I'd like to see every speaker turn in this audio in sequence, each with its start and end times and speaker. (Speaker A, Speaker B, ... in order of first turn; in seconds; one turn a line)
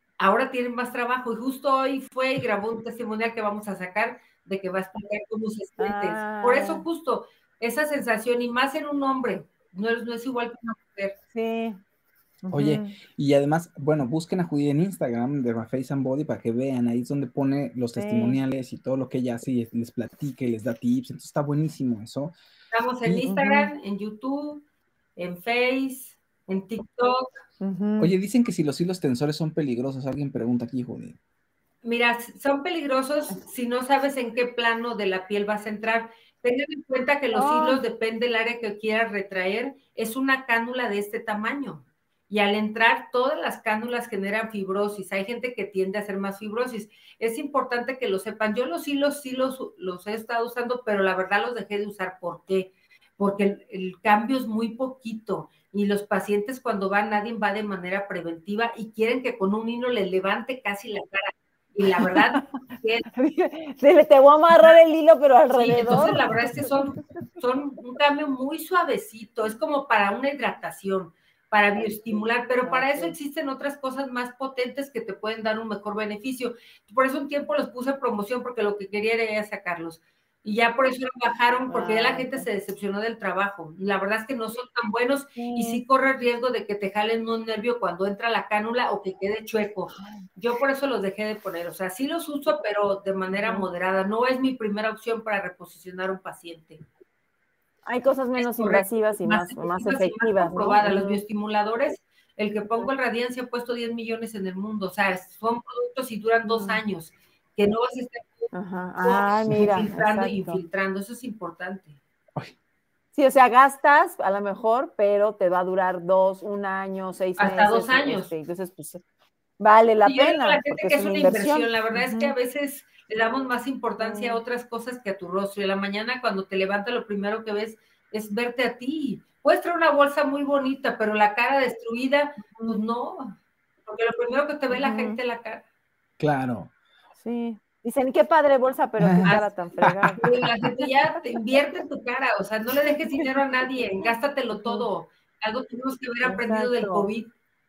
Speaker A: 0.2-11.2
Speaker B: 5.8-6.8
Speaker B: 11.3-11.8
Speaker B: 12.4-13.0
Speaker C: 12.5-22.3
Speaker B: 17.9-18.4
Speaker A: 22.7-24.6
Speaker B: 23.2-23.7
Speaker A: 25.1-27.3
Speaker B: 27.6-28.1
Speaker C: 28.0-31.2
Speaker A: 31.8-63.0
Speaker B: 37.3-37.8
Speaker B: 63.1-66.6
Speaker A: 65.5-96.8
Speaker B: 71.8-73.2
Speaker B: 81.7-82.5
Speaker B: 85.3-85.8
Speaker B: 89.9-90.2
Speaker B: 93.3-93.7
Speaker B: 97.8-101.2
Speaker A: 98.3-108.5
Speaker B: 106.4-106.8
Speaker B: 108.5-110.6
Speaker A: 109.0-112.0
Speaker B: 113.1-119.0
Speaker A: 117.4-118.3
Speaker B: 119.6-122.3
Speaker A: 120.0-135.6
Speaker B: 124.0-124.4
Speaker B: 132.4-132.8
Speaker B: 134.7-135.2
Speaker C: 136.2-136.7
Speaker B: 137.2-141.4
Speaker C: 139.0-140.5
Speaker A: 140.2-147.3
Speaker B: 144.5-144.9
Speaker B: 146.2-147.1